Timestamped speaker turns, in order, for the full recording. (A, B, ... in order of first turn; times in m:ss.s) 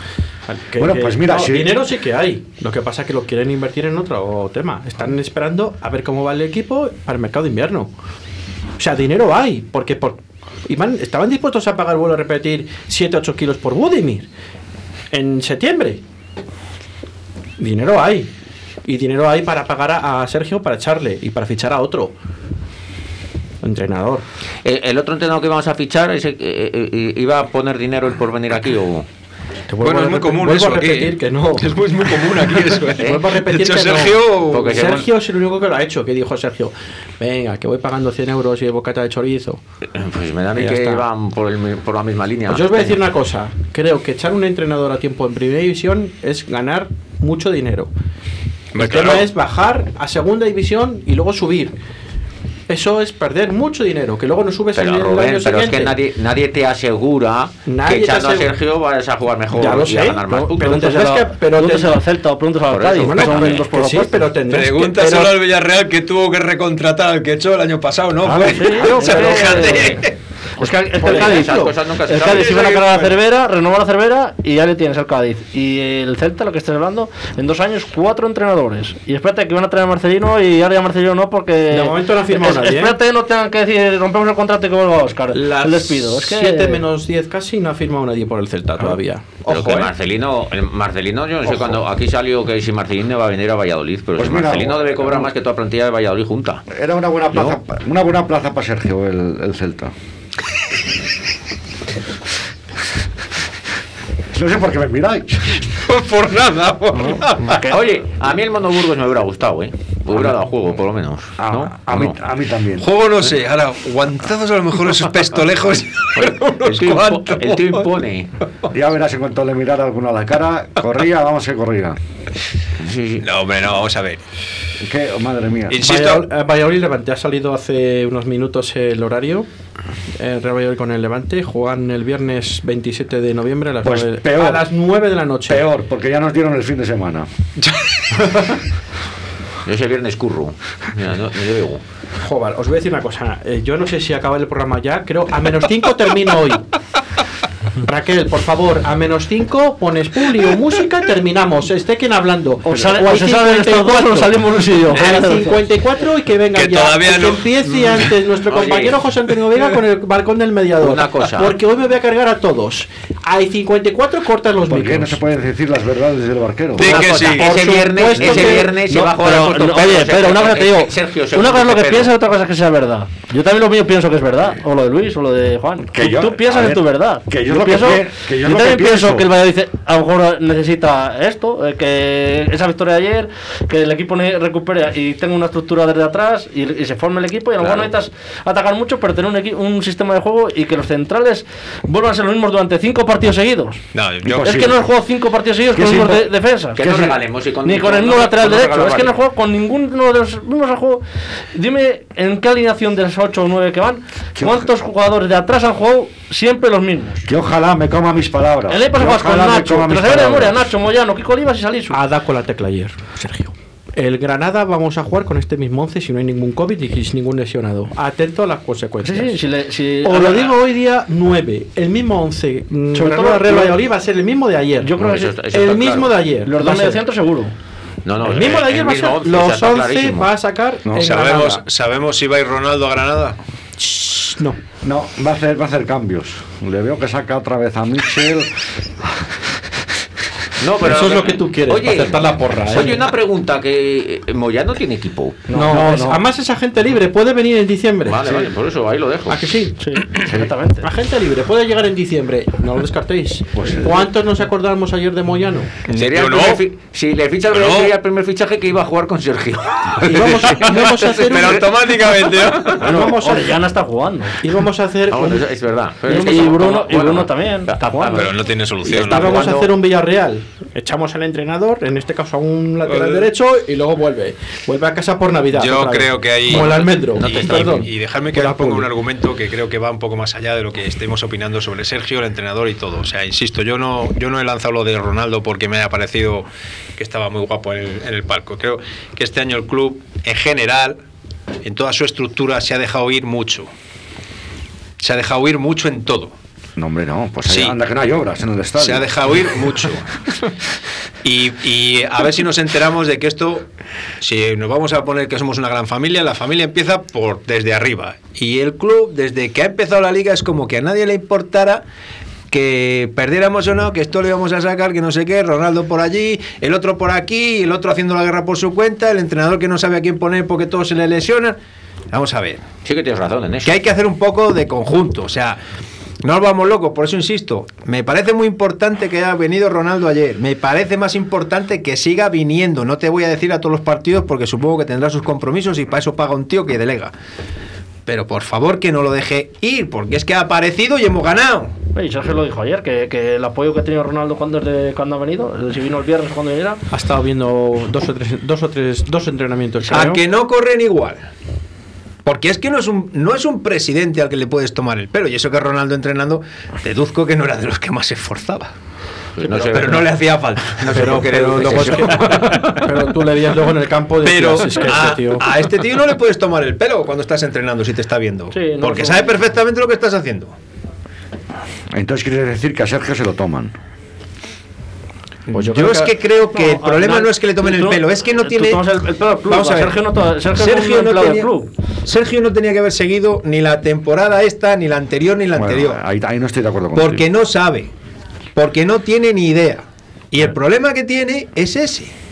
0:00.5-0:07.9 A
0:00.8-0:01.8 B
0:08.8-0:14.3 A
0:15.1-0:16.0 A
0:17.6-0:18.3 A
0:18.8-0:22.1 A
0:23.6-0:24.2 A
0:24.6-0:29.0 C
0:29.7-0:31.8 A
0:29.8-0:34.9 D
0:32.9-0:39.6 A
0:33.0-0:33.2 C
0:34.5-0:35.1 C
0:39.9-0:43.0 C
0:40.5-0:41.0 A
0:42.5-0:47.9 A
0:48.7-0:49.3 D
0:48.7-0:51.7 A
0:52.7-0:56.0 A
0:54.7-1:00.8 C
0:57.6-0:58.5 A
0:59.5-1:02.0 A
1:00.3-1:04.2 E
1:02.7-1:03.6 C
1:03.0-1:05.4 A
1:04.5-1:10.1 D
1:08.2-1:10.0 E
1:08.4-1:09.6 A
1:10.6-1:26.8 E
1:10.6-1:11.7 A
1:11.0-1:12.6 C
1:12.1-1:13.2 D
1:21.7-1:23.0 A
1:25.3-1:29.4 A
1:29.4-1:29.9 D
1:29.4-1:36.6 C
1:34.2-1:35.3 B
1:36.7-1:39.9 B
1:44.3-1:45.6 B
1:45.8-1:47.7 D
1:47.4-1:52.2 C
1:51.4-1:52.9 B
1:52.8-1:58.0 D
1:56.1-1:58.3 C
1:58.7-2:02.0 B
2:02.8-2:03.2 C
2:03.2-2:04.2 D
2:04.8-2:05.8 B
2:05.7-2:06.3 D
2:05.8-2:09.5 A
2:10.2-2:15.6 A
2:13.8-2:14.7 B
2:15.5-2:17.3 B
2:17.6-2:18.6 D
2:19.6-2:21.8 C
2:22.2-2:26.6 A
2:27.8-2:45.2 A
2:32.6-2:33.1 B
2:32.7-2:35.6 E
2:36.5-2:38.2 D
2:38.5-2:39.0 C
2:40.8-2:41.6 C
2:44.6-2:47.0 B
2:46.8-2:47.7 D
2:46.8-2:52.1 C
2:46.9-2:48.8 A
2:48.2-3:16.8 E
2:55.9-2:59.3 B
3:07.6-3:07.9 C
3:13.9-3:14.6 D
3:14.2-3:14.8 B
3:15.7-3:17.2 B
3:16.8-3:19.2 C
3:17.6-3:27.2 E
3:24.4-3:24.7 B
3:27.2-3:30.7 B
3:28.7-3:32.0 E
3:31.9-3:39.4 A
3:39.0-3:40.6 E
3:40.0-3:47.0 A
3:42.9-3:43.8 E
3:44.8-3:45.3 E
3:45.0-3:46.2 C
3:46.4-3:47.5 E
3:48.0-3:50.3 C
3:48.2-3:51.6 A
3:50.9-3:53.4 D
3:53.8-3:54.6 A
3:54.8-3:58.5 B
4:00.6-4:05.4 C
4:00.8-4:03.1 A
4:05.5-4:06.2 E
4:05.5-4:08.5 A
4:05.7-4:06.2 B
4:08.0-4:09.5 C
4:09.3-4:09.7 A
4:09.8-4:10.8 E
4:10.8-4:15.7 A
4:13.5-4:14.1 B
4:15.9-4:16.6 D
4:15.9-4:20.4 C
4:17.5-4:17.9 D
4:19.9-4:23.1 D
4:20.0-4:21.8 A
4:22.7-4:23.6 A
4:22.8-4:24.4 E
4:24.4-4:25.5 A
4:25.1-4:29.7 C
4:26.1-4:28.3 E
4:28.1-4:29.5 D
4:28.9-4:38.9 A
4:32.8-4:33.3 D
4:35.5-4:51.0 D
4:36.5-4:37.9 C
4:51.6-4:53.7 D
4:55.0-4:56.3 D
4:56.8-4:59.5 B
4:57.4-4:57.8 D
4:58.8-5:00.1 D
5:01.2-5:03.6 D
5:04.2-5:11.8 D
5:12.5-5:21.6 D
5:22.1-5:22.6 D
5:22.8-5:23.8 C
5:23.6-5:25.6 D
5:26.2-5:37.1 D
5:38.0-5:41.7 D
5:41.9-5:46.8 E
5:46.9-5:50.2 A
5:49.8-5:51.2 D
5:52.2-5:58.7 D
5:59.4-6:00.2 C
5:59.4-6:03.0 D
6:00.8-6:02.7 C
6:00.9-6:05.5 A
6:04.2-6:10.5 D
6:08.5-6:09.3 E
6:11.9-6:13.7 B
6:15.5-6:16.1 A
6:15.5-6:18.8 D
6:16.5-6:21.7 E
6:19.4-6:21.5 D
6:22.0-6:26.0 D
6:25.5-6:27.3 B
6:26.9-6:27.9 D
6:28.5-6:32.1 D